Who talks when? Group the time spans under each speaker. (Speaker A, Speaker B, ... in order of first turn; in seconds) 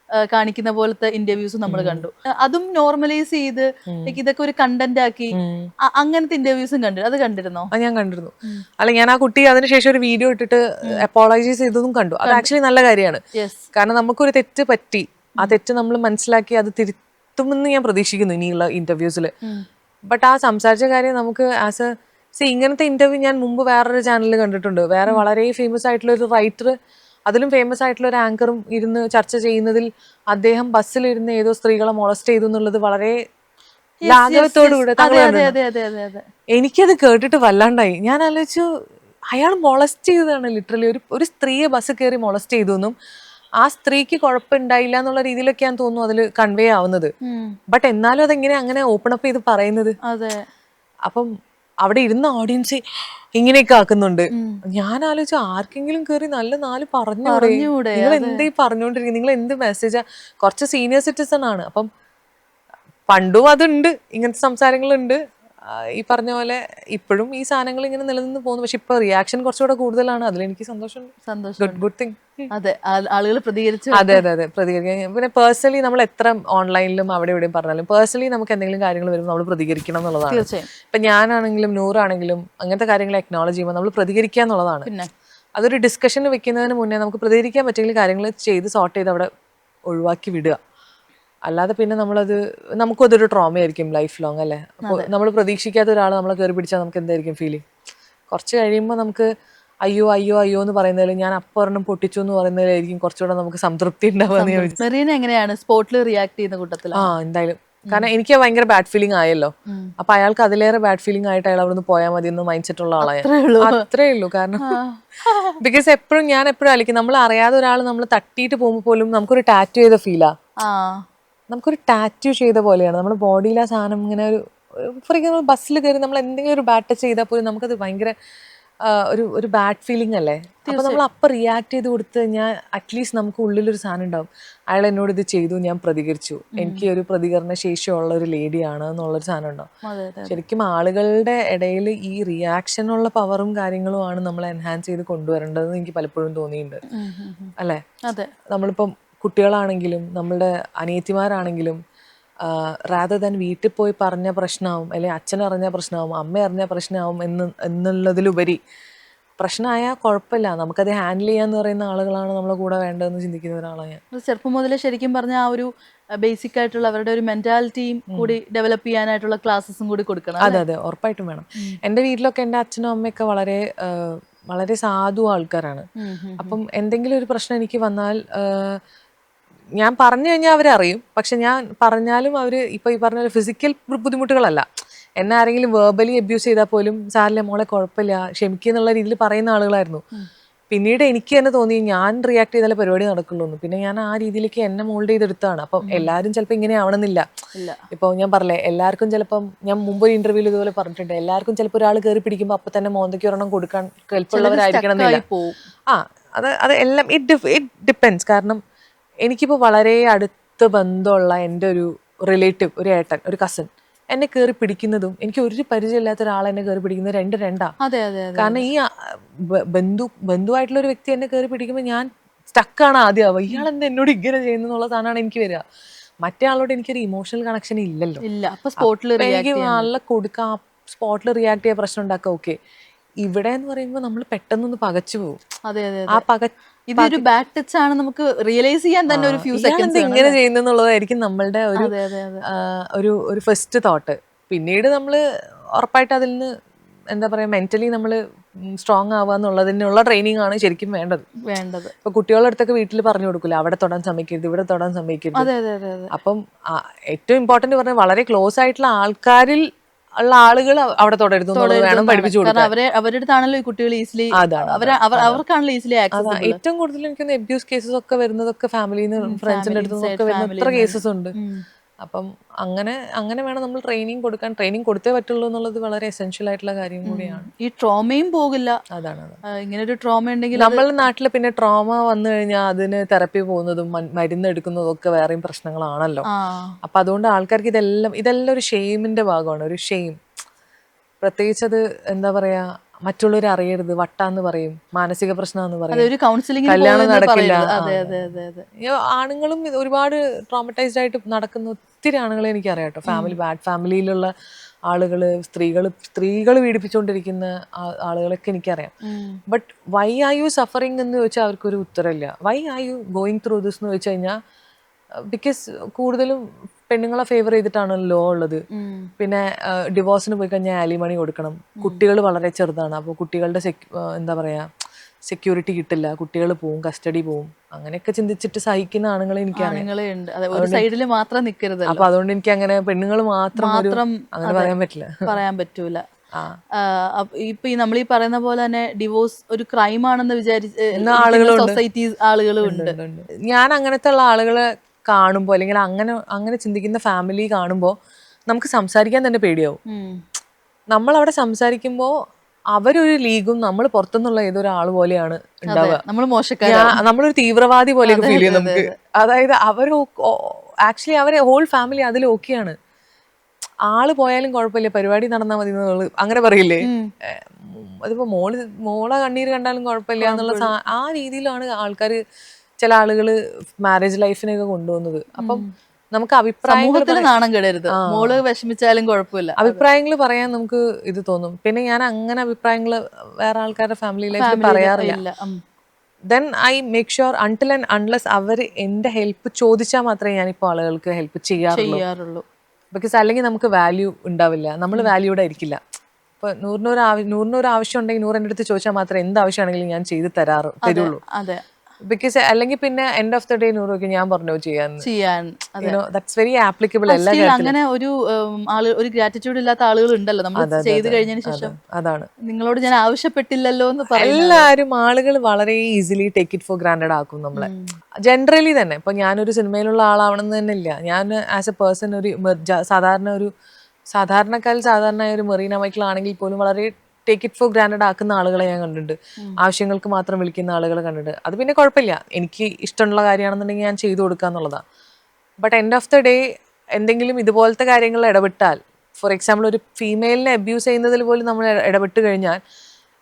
Speaker A: 0.2-5.3, 5.9-7.7, 13.3-13.6, 34.0-36.2, 47.2-47.5, 50.1-50.4, 54.3-54.6, 57.2-58.4, 71.3-71.8, 72.5-74.2, 80.3-80.7, 104.4-107.0, 113.0-113.8, 114.7-115.6, 120.6-121.0, 130.7-131.0, 136.6-136.8, 139.8-140.4, 146.9-147.5, 164.1-165.7, 166.2-170.6, 176.0-176.6, 195.8-196.1, 204.3-205.6, 217.8-218.7, 228.2-229.9, 235.7-236.2, 236.9-240.4, 241.8-242.4, 251.5-251.9, 255.3-256.1, 261.5-266.6, 269.2-271.6, 277.1-278.8, 279.6-280.8, 286.3-286.7, 295.9-298.6, 303.1-303.3, 309.1-309.4, 318.7-319.1, 329.6-332.0, 333.6-334.7, 335.2-336.0, 336.8-342.9, 349.9-350.2, 355.7-356.9, 358.0-358.9, 370.2-370.7, 375.4-375.7, 376.7-379.8, 384.4-385.6, 391.7-392.4, 400.9-401.6, 405.0-406.0, 407.1-411.7, 412.5-414.7, 417.6-417.9
Speaker B: 1.7-2.0, 3.9-4.2, 5.3-5.7, 7.7-13.2, 13.7-19.3, 20.1-21.9, 22.4-26.7, 27.3-33.1, 34.1-35.5, 36.5-38.6, 39.3-42.9, 43.6-47.1, 47.7-50.0, 51.8-52.8, 53.4-61.9, 63.1-65.2, 65.7-72.5, 73.9-84.9, 85.6-89.3, 89.9-90.6, 91.5-97.6, 98.3-99.3, 99.8-104.8, 107.0-114.8, 115.6-120.3, 121.5-128.1, 128.9-139.7, 140.3-146.8, 148.5-151.8, 152.4-158.6, 159.4-164.0, 170.4-175.9, 176.4-178.8, 179.8-184.7, 185.2-190.0, 190.7-197.2, 197.9-205.2, 205.9-208.6, 209.3-217.7, 218.4-218.8, 219.7-225.6, 226.2-228.2, 228.8-232.6, 233.2-235.4, 236.1-237.2, 239.1-241.9, 242.5-245.2, 245.8-246.5, 247.1-248.2, 248.8-251.2, 252.0-255.5, 256.1-259.6, 260.2-262.7, 264.4-265.4, 266.1-271.3, 272.0-277.5, 278.9-279.4, 280.6-286.3, 286.8-290.2, 291.2-296.1, 296.7-304.3, 304.9-308.9, 309.5-314.4, 315.3-318.6, 319.2-324.7, 325.3-329.8, 330.6-330.9, 331.9-335.1, 341.0-341.8, 342.6-347.9, 348.5-349.8, 350.9-352.1, 352.7-356.0, 356.7-362.8, 363.9-372.2, 372.8-375.6, 376.1-377.3, 377.9-378.4, 379.6-385.2, 386.3-392.0, 392.9-395.8, 396.4-401.2, 402.1-405.1, 405.8-407.7, 410.6-412.3, 414.1-417.7, 418.3-423.5, 424.1-434.8, 435.6-436.4, 437.0-442.6